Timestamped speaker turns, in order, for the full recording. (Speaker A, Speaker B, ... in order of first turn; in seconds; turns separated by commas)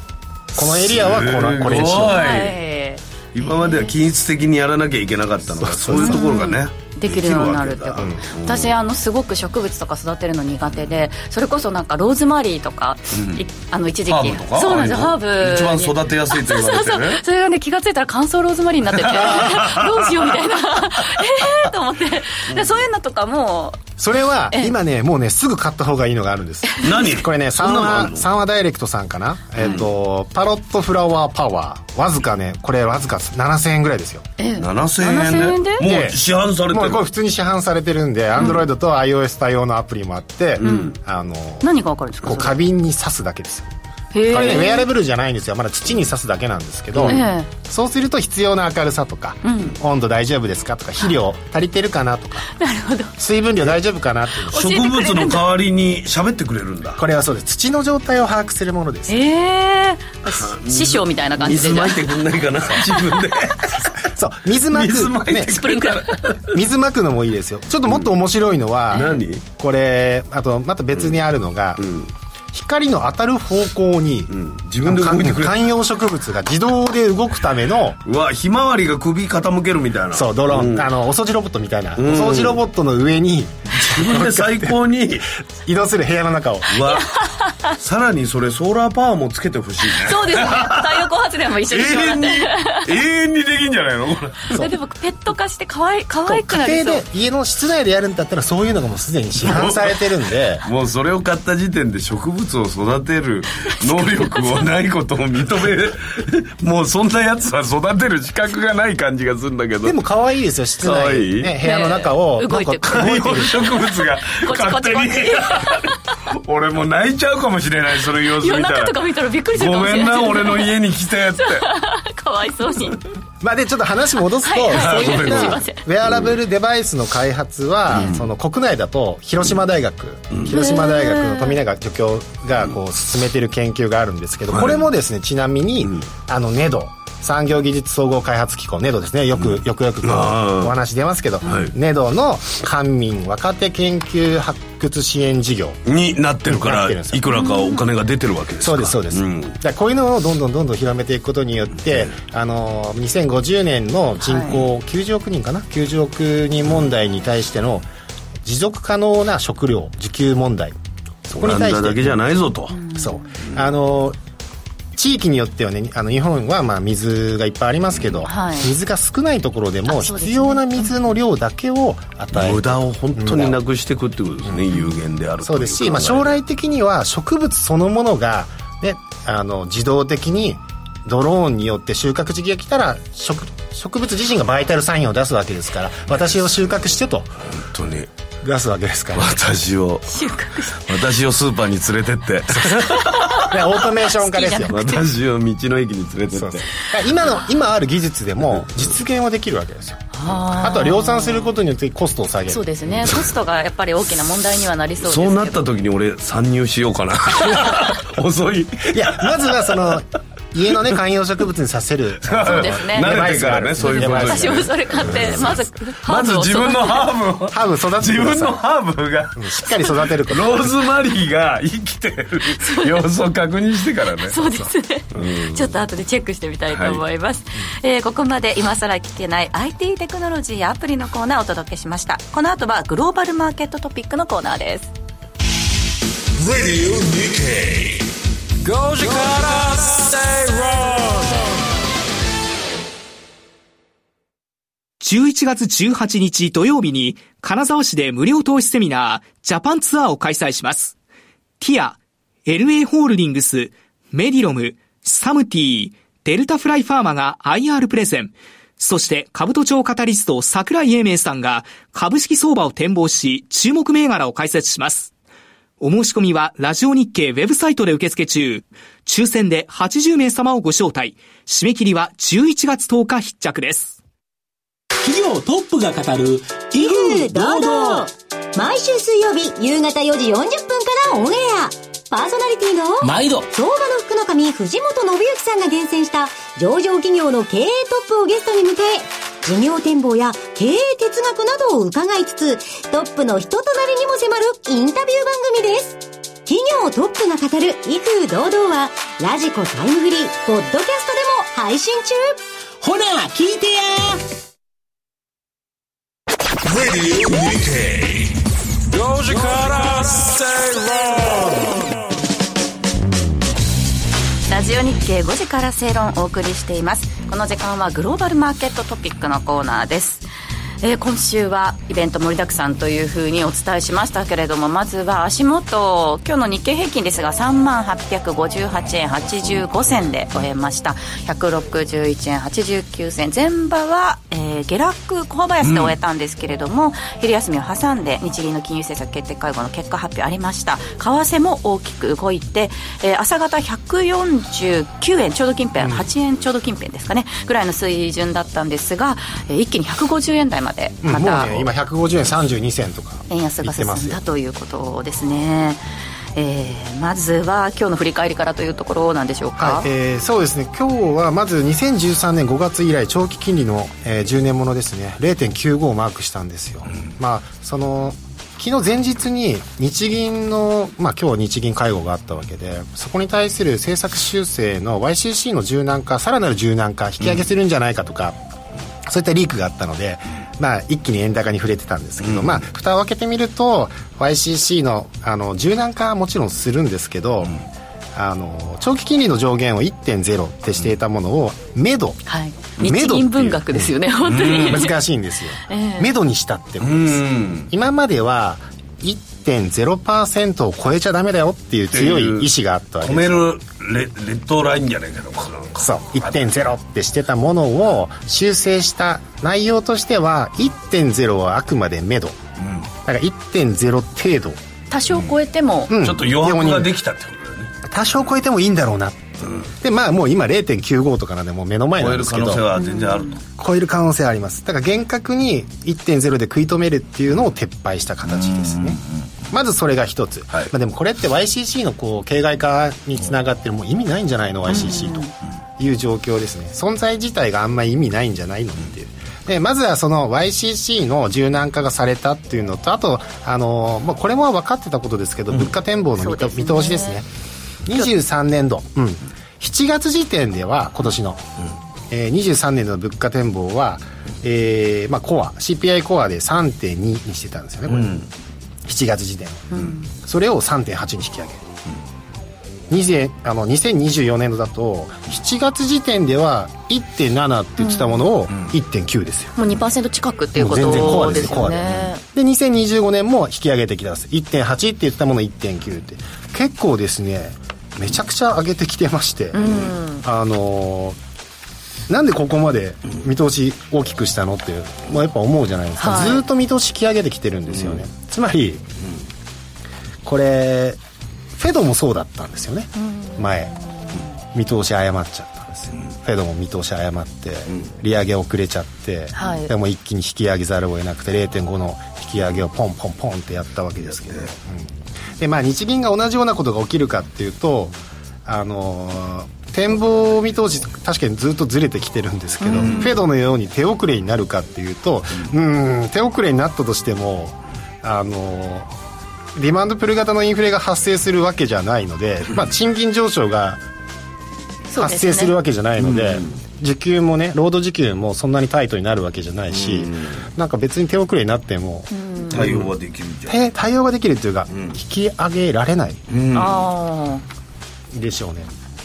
Speaker A: 0.5-2.4, Speaker B: 0.6-2.6, Speaker C: 2.0-3.9, Speaker B: 3.3-8.7, Speaker A: 5.6-6.2, Speaker C: 5.9-23.8, Speaker B: 13.1-13.4, Speaker B: 14.1-17.2, Speaker B: 18.9-20.6, Speaker B: 22.5-22.8, Speaker A: 24.0-34.2, Speaker B: 26.8-28.2, Speaker C: 34.4-35.8, Speaker B: 34.6-37.0, Speaker A: 35.8-36.2, Speaker A: 36.7-41.7, Speaker B: 40.6-40.9, Speaker C: 40.6-40.9, Speaker C: 41.6-42.6, Speaker A: 42.2-43.7, Speaker C: 44.1-44.9, Speaker A: 44.3-52.5, Speaker C: 47.0-47.5, Speaker C: 49.4-49.7, Speaker C: 52.5-53.1, Speaker A: 53.2-54.7, Speaker C: 54.5-55.4, Speaker B: 54.5-57.0, Speaker A: 57.0-59.2, Speaker C: 59.1-62.1, Speaker B: 60.3-63.9, Speaker A: 64.0-65.7, Speaker B: 64.7-66.6, Speaker C: 65.5-66.2, Speaker A: 66.5-71.8, Speaker B: 68.9-69.4, Speaker B: 70.9-71.2, Speaker B: 71.8-72.1, Speaker A: 72.5-78.0, Speaker B: 74.3-75.7, Speaker B: 78.0-80.9, Speaker A: 80.1-84.7, Speaker B: 82.0-82.6, Speaker B: 83.7-85.3, Speaker A: 85.7-86.8, Speaker B: 86.7-87.1, Speaker C: 87.1-87.7, Speaker B: 87.8-91.1, Speaker C: 89.9-92.9, Speaker B: 91.7-94.6, Speaker C: 94.5-97.0, Speaker A: 96.2-100.6, Speaker B: 99.4-100.0, Speaker B: 100.6-110.0, Speaker C: 103.7-104.5, Speaker A: 109.8-113.6, Speaker B: 110.8-111.5, Speaker C: 111.6-113.4, Speaker B: 112.9-119.0, Speaker C: 114.3-115.8, Speaker C: 118.4-120.7, Speaker B: 119.5-121.7, Speaker C: 121.4-123.0, Speaker A: 123.4-145.8, Speaker C: 124.4-125.8, Speaker B: 124.7-126.3, Speaker B: 127.9-128.3, Speaker C: 130.5-131.6, Speaker B: 134.5-134.8, Speaker B: 139.4-140.7, Speaker B: 141.4-141.7, Speaker B: 145.8-149.6, Speaker A: 146.4-147.2, Speaker C: 147.3-147.8, Speaker A: 148.6-157.9, Speaker B: 151.8-152.1, Speaker C: 154.2-154.5, Speaker A: 158.4-160.8, Speaker A: 161.3-162.2, Speaker B: 161.3-162.8, Speaker C: 162.7-163.3, Speaker A: 162.9-164.2, Speaker A: 164.9-173.6, Speaker C: 168.2-168.7, Speaker C: 169.8-170.9, Speaker B: 172.3-176.4, Speaker A: 175.4-187.3, Speaker B: 187.6-188.1, Speaker A: 188.4-189.4, Speaker B: 189.1-190.1, Speaker C: 190.1-190.9, Speaker B: 190.8-193.4, Speaker A: 192.5-194.8, Speaker C: 192.9-195.0, Speaker B: 194.7-196.7, Speaker A: 196.3-202.6, Speaker C: 200.1-201.5, Speaker C: 202.5-205.6, Speaker B: 205.0-209.9, Speaker A: 208.9-215.7, Speaker B: 212.2-224.4, Speaker C: 212.4-213.1, Speaker C: 213.8-217.1, Speaker A: 217.5-218.6, Speaker A: 219.3-220.7, Speaker C: 222.6-223.0, Speaker C: 224.2-234.9, Speaker B: 225.1-225.7, Speaker B: 226.7-227.0, Speaker D: 236.4-238.1, Speaker D: 238.6-241.6, Speaker E: 245.0-250.9, Speaker E: 251.6-265.1, Speaker E: 265.8-274.0, Speaker F: 275.0-278.1, Speaker G: 276.8-302.4, Speaker F: 283.0-283.5, Speaker F: 302.8-304.2, Speaker F: 306.7-308.0, Speaker D: 308.9-311.9, Speaker C: 314.5-320.2, Speaker C: 320.8-351.6, Speaker B: 335.6-335.9, Speaker A: 345.8-346.1, Speaker A: 351.0-354.2, Speaker C: 353.3-355.8, Speaker C: 356.4-359.9, Speaker A: 359.6-378.4, Speaker A: 379.1-387.5, Speaker B: 382.2-382.6, Speaker A: 388.1-392.2, Speaker C: 392.2-394.9, Speaker A: 392.8-393.9, Speaker B: 394.2-394.9, Speaker A: 394.6-403.4, Speaker C: 395.7-396.1, Speaker B: 396.8-397.7, Speaker B: 401.9-402.5, Speaker B: 403.0-406.3, Speaker A: 405.8-412.4, Speaker B: 412.6-412.9, Speaker A: 413.0-414.6, Speaker C: 414.9-415.9, Speaker A: 415.9-416.9, Speaker B: 416.0-417.7, Speaker A: 417.8-422.7, Speaker B: 419.4-419.7, Speaker B: 422.0-423.4, Speaker C: 422.8-423.4, Speaker A: 423.6-429.0, Speaker B: 428.3-429.3, Speaker A: 429.5-447.3, Speaker C: 434.7-435.3, Speaker C: 446.2-447.2, Speaker A: 447.9-451.4, Speaker A: 452.1-458.2, Speaker B: 457.9-458.3, Speaker A: 458.8-461.6, Speaker C: 459.7-460.1, Speaker A: 462.9-469.6, Speaker C: 467.8-468.2, Speaker C: 469.6-472.2, Speaker A: 470.5-481.2, Speaker C: 479.5-480.2, Speaker A: 482.1-488.8, Speaker C: 486.0-486.4, Speaker B: 487.7-488.0, Speaker A: 490.2-491.0, Speaker A: 491.5-493.7, Speaker C: 493.0-494.3, Speaker A: 494.5-518.9, Speaker C: 499.3-499.7, Speaker C: 512.6-513.1, Speaker B: 512.8-513.1, Speaker A: 519.5-523.8, Speaker C: 524.9-525.5, Speaker A: 525.0-532.9, Speaker B: 526.0-526.5, Speaker B: 529.7-530.4, Speaker C: 532.1-532.6, Speaker B: 532.5-533.6, Speaker A: 533.5-536.2, Speaker B: 534.7-535.0, Speaker B: 536.3-536.9, Speaker C: 536.5-537.4, Speaker A: 538.1-538.7